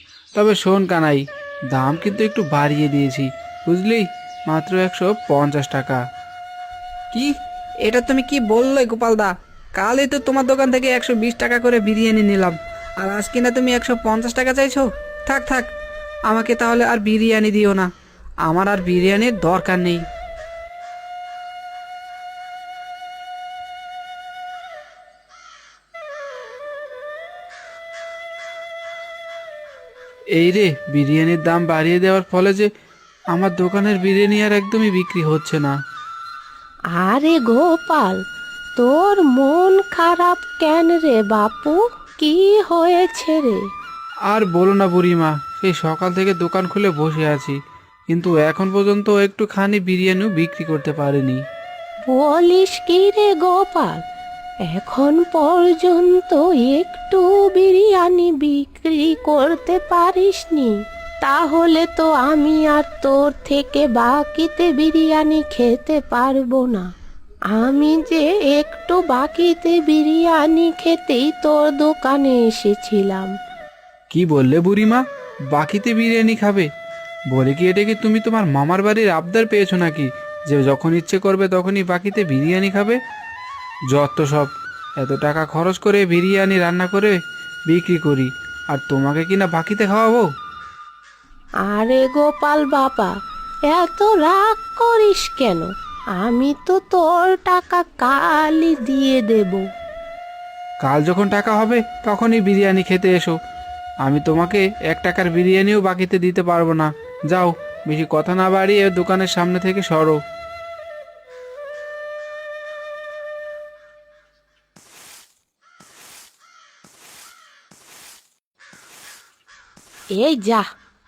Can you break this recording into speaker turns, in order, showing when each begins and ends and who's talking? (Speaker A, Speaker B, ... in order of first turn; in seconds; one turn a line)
Speaker A: 0.3-6.0
Speaker B: 7.8-15.7
Speaker B: 16.3-17.9
Speaker B: 18.5-20.0
Speaker A: 30.4-32.7
Speaker A: 33.3-35.7
Speaker C: 37.0-38.2
Speaker C: 38.8-43.6
Speaker A: 44.3-47.6
Speaker A: 48.1-51.4
Speaker C: 52.1-54.0
Speaker C: 54.7-66.9
Speaker C: 67.5-73.3
Speaker A: 74.1-76.7
Speaker A: 77.3-83.0
Speaker A: 83.9-90.3
Speaker C: 91.7-93.1
Speaker C: 93.7-99.7
Speaker A: 100.8-103.4
Speaker A: 104.0-110.2
Speaker C: 120.2-120.7